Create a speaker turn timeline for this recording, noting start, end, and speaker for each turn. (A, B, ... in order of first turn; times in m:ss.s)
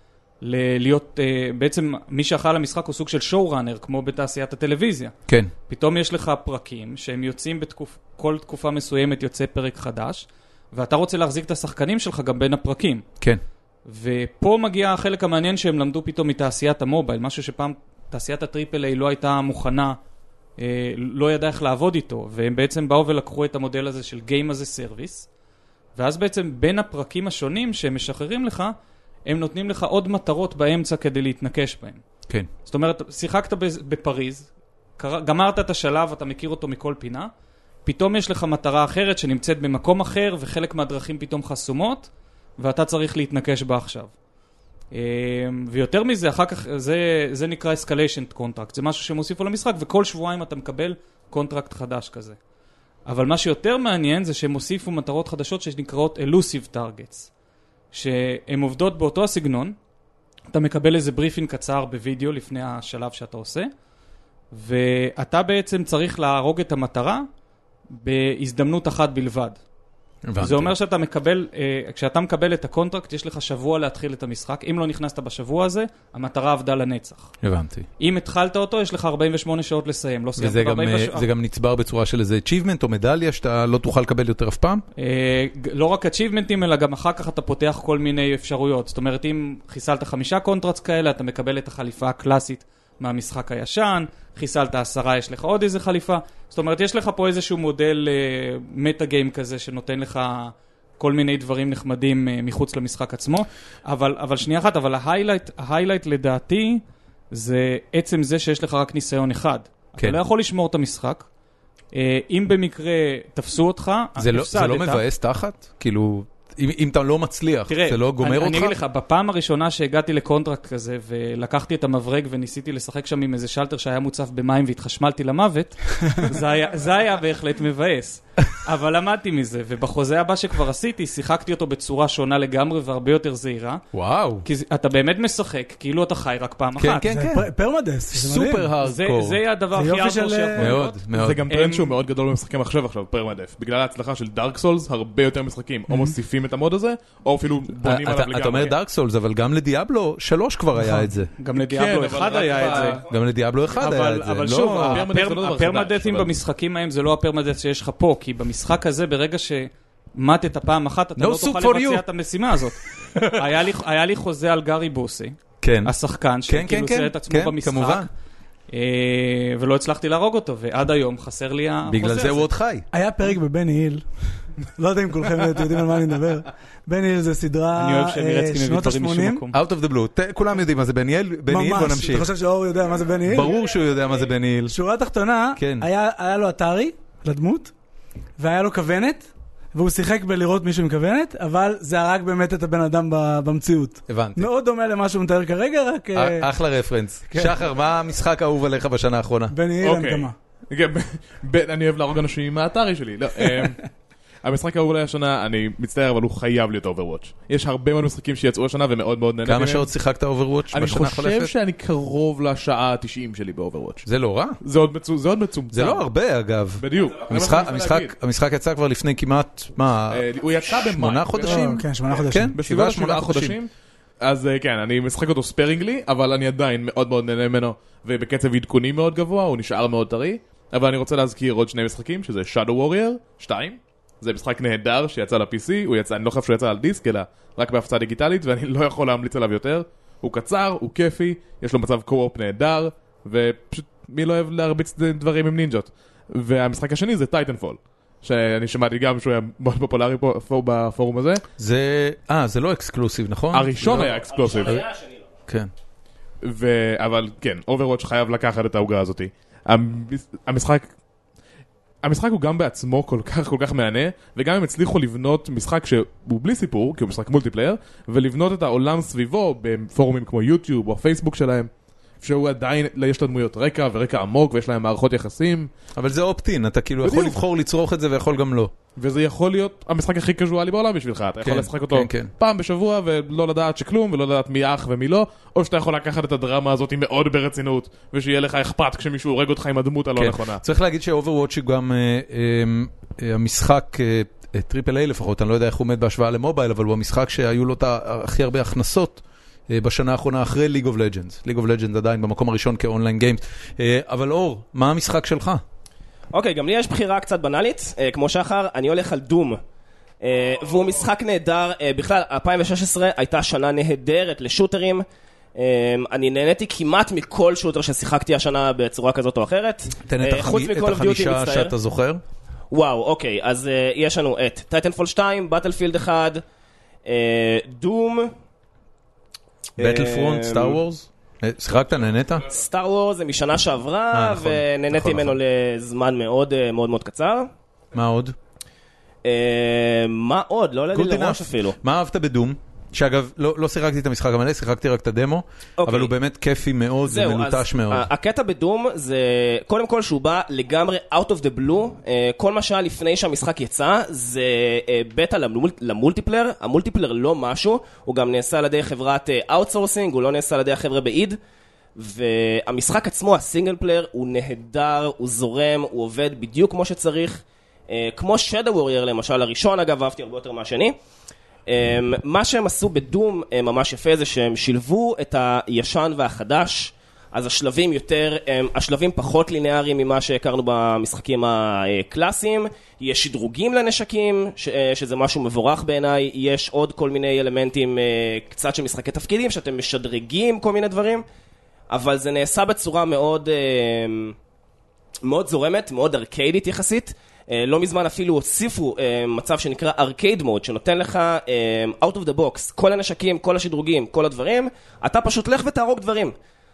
0:00.4-0:05.1 A
0:05.7-0:13.0 A
0:13.9-0:20.0 A
0:20.6-0:25.3 A
0:26.0-0:28.7 A
0:29.3-0:32.0 A
0:32.6-0:37.3 A
0:37.8-0:44.1 A
0:44.9-0:52.4 A
0:53.1-0:57.3 A
0:57.9-0:59.8 A
1:00.5-1:03.7 A
1:04.5-1:07.3 A
1:07.9-1:09.6 A
1:10.2-1:10.7 B
1:10.4-1:17.3 A
1:17.4-1:17.9 B
1:18.0-1:21.3 A
1:20.4-1:24.8 B
1:25.0-1:51.3 A
1:51.9-1:55.0 A
1:54.2-1:58.8 B
1:57.7-2:13.8 A
2:13.9-2:14.5 B
2:14.4-2:17.1 A
2:16.8-2:17.5 B
2:17.0-2:18.7 C
2:18.1-2:19.4 B
2:18.8-2:22.0 A
2:19.7-2:20.8 C
2:20.6-2:21.4 B
2:21.1-2:28.7 D
2:25.9-2:26.1 C
2:27.8-2:31.3 B
2:30.8-2:31.0 C
2:31.4-2:33.0 A
2:31.5-2:33.1 D
2:32.6-2:33.2 E
2:33.1-2:35.1 B
2:33.7-2:48.1 A
2:34.5-2:36.3 D
2:41.2-2:42.0 B
2:43.1-2:43.5 B
2:45.6-2:46.0 B
2:46.5-2:48.1 B
2:48.7-2:52.5 A
2:51.9-2:52.9 B
2:52.9-2:54.1 C
2:54.6-2:59.4 C
2:57.8-2:59.6 A
2:59.5-3:02.3 B
3:01.5-3:03.5 C
3:03.3-3:04.8 B
3:04.7-3:07.7 C
3:05.6-3:05.9 B
3:08.4-3:16.5 C
3:14.1-3:14.5 B
3:16.2-3:19.6 B
3:17.3-3:17.6 C
3:19.5-3:20.3 C
3:19.8-3:23.8 D
3:24.4-3:29.9 D
3:29.4-3:31.5 B
3:30.7-3:34.1 D
3:34.1-3:34.6 B
3:34.6-3:36.0 D
3:35.7-3:40.2 B
3:36.8-3:38.1 D
3:40.1-3:41.8 D
3:40.9-3:43.6 B
3:41.4-3:42.6 C
3:42.5-3:43.7 D
3:44.2-4:11.4 D
4:11.6-4:14.2 B
4:13.5-4:14.8 D
4:13.9-4:15.2 E
4:16.4-4:20.9 D
4:22.0-4:35.7 D
4:36.0-4:38.7 B
4:37.0-4:37.4 D
4:39.0-4:50.6 D
4:41.4-4:42.3 B
4:50.2-5:05.6 B
5:06.3-5:09.6 E
5:10.2-5:15.0 E
5:15.6-5:21.7 E
5:20.1-5:22.2 B
5:22.7-5:26.4 E
5:27.0-5:28.3 E
5:29.8-5:30.8 E
5:29.8-5:32.5 B
5:32.5-5:37.5 E
5:34.1-5:35.4 B
5:37.9-5:38.4 B
5:39.2-5:41.8 E
5:40.9-5:48.1 B
5:45.8-5:46.1 E
5:47.0-6:01.4 E
6:02.0-6:11.0 E
6:11.7-6:31.2 E
6:31.9-6:34.4 E
6:35.2-6:46.4 E